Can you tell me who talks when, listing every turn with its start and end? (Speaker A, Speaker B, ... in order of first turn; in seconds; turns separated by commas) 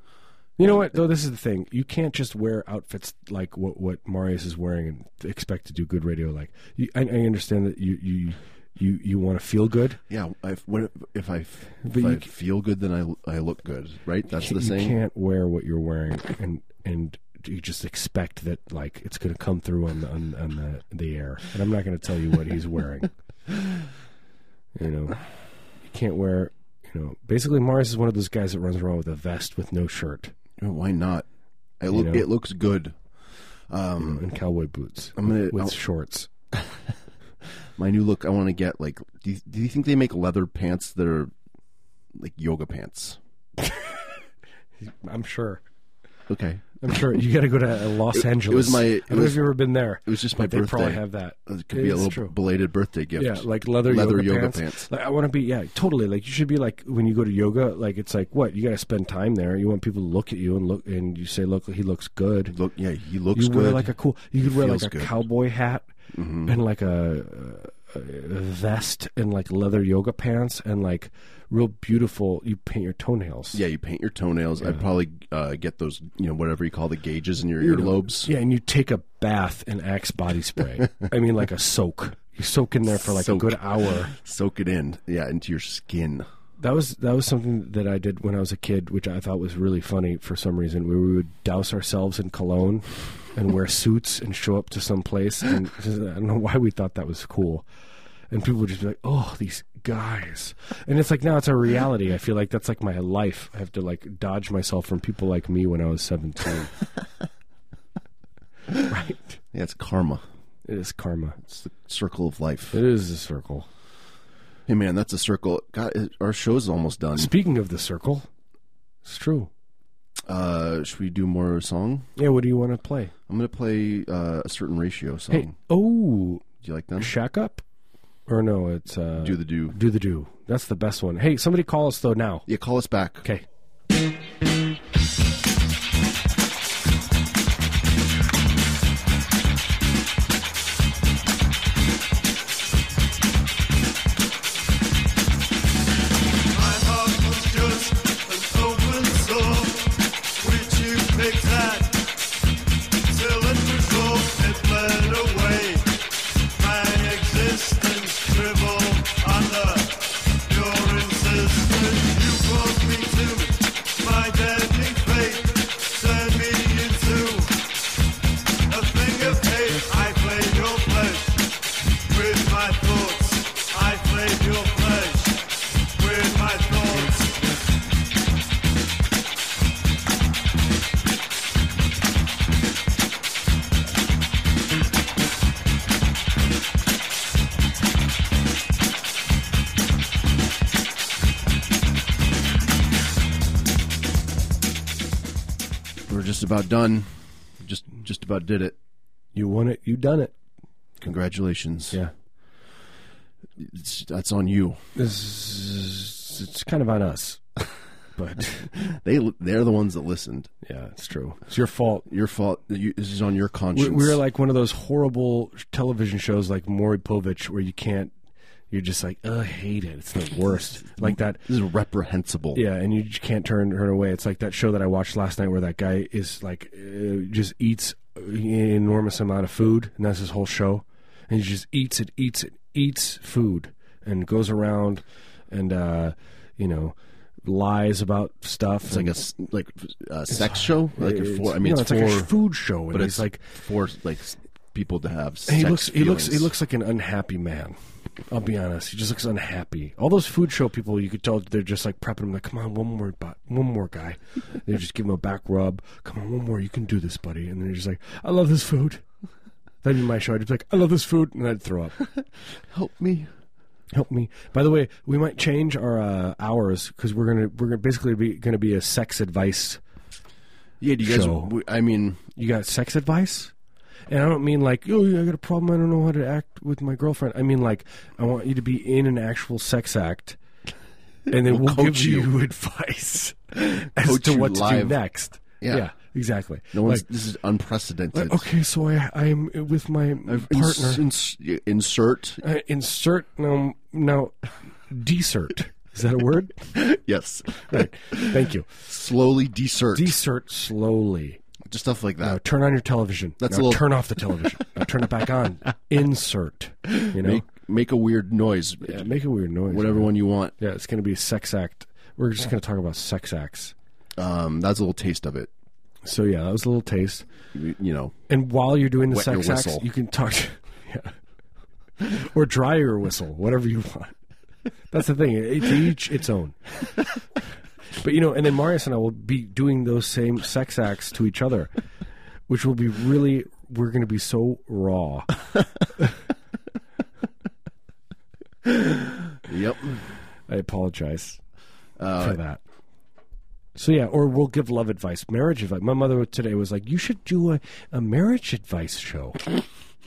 Speaker A: 0.6-10.0, Speaker B: 10.1-15.0, Speaker A: 11.8-12.3, Speaker A: 14.3-23.1, Speaker A: 24.8-25.2, Speaker A: 25.8-30.3, Speaker B: 30.6-31.2, Speaker B: 31.8-33.0, Speaker A: 31.9-32.2, Speaker B: 33.7-34.2, Speaker A: 34.0-36.3, Speaker B: 35.2-35.8, Speaker B: 37.8-41.3, Speaker B: 42.1-43.2, Speaker A: 43.6-44.1, Speaker A: 44.8-45.6, Speaker B: 46.3-46.8, Speaker A: 46.8-52.3, Speaker B: 48.1-49.5, Speaker B: 50.0-54.9, Speaker A: 53.1-62.5, Speaker B: 62.5-65.2, Speaker A: 63.3-65.9, Speaker B: 66.1-66.5, Speaker A: 66.4-73.6, Speaker B: 73.5-78.3, Speaker A: 77.6-84.1, Speaker B: 83.0-86.3, Speaker A: 86.6-97.7, Speaker A: 98.3-106.7, Speaker A: 108.9-109.4, Speaker B: 109.5-110.2, Speaker A: 110.7-111.4, Speaker B: 111.4-112.8, Speaker A: 112.7-113.7, Speaker B: 114.7-117.3, Speaker A: 117.2-118.3, Speaker A: 119.0-119.5, Speaker B: 120.3-122.1, Speaker A: 122.2-123.1, Speaker B: 123.3-125.5, Speaker A: 125.3-127.6, Speaker B: 126.6-127.1, Speaker A: 128.3-132.5, Speaker B: 129.2-129.8, Speaker B: 132.5-133.3, Speaker C: 146.5-152.1, Speaker C: 153.1-155.9, Speaker C: 156.5-167.6, Speaker C: 168.7-171.5, Speaker C: 172.0-177.5, Speaker B: 196.1-198.8, Speaker A: 199.3-200.3, Speaker B: 201.0-202.0, Speaker B: 203.6-204.8, Speaker A: 204.9-207.4, Speaker A: 208.1-208.7, Speaker B: 208.7-210.5, Speaker A: 210.6-212.1, Speaker B: 212.1-214.2, Speaker A: 213.7-218.1, Speaker A: 218.7-221.4, Speaker B: 220.9-222.6, Speaker A: 222.5-239.2, Speaker B: 238.8-242.3, Speaker A: 240.3-243.5, Speaker B: 242.9-246.5, Speaker A: 245.5-247.8, Speaker A: 248.3-259.0, Speaker A: 259.8-262.0, Speaker B: 262.7-263.3, Speaker A: 263.9-269.8, Speaker B: 270.8-272.2, Speaker A: 271.0-271.6, Speaker A: 272.3-273.5, Speaker A: 274.1-280.4, Speaker A: 281.3-287.0, Speaker B: 281.3-282.3, Speaker B: 284.0-285.0, Speaker B: 285.6-285.9, Speaker B: 286.7-288.4, Speaker A: 288.1-291.0, Speaker B: 290.2-292.4, Speaker A: 292.4-296.7, Speaker B: 296.7-300.2, Speaker A: 297.6-298.8, Speaker A: 299.9-301.4, Speaker B: 301.7-302.4, Speaker A: 302.2-307.4, Speaker B: 303.4-304.6, Speaker B: 306.9-309.1, Speaker A: 308.9-313.7, Speaker B: 309.7-310.6, Speaker B: 314.2-315.5, Speaker A: 316.0-317.2, Speaker B: 317.5-318.2, Speaker A: 318.3-321.2, Speaker B: 319.0-319.9, Speaker A: 322.0-324.2, Speaker A: 324.9-326.6, Speaker A: 327.9-331.7, Speaker A: 332.5-335.3, Speaker B: 338.6-340.1, Speaker A: 340.5-341.4, Speaker B: 342.0-342.4, Speaker A: 342.2-342.6, Speaker A: 343.7-349.4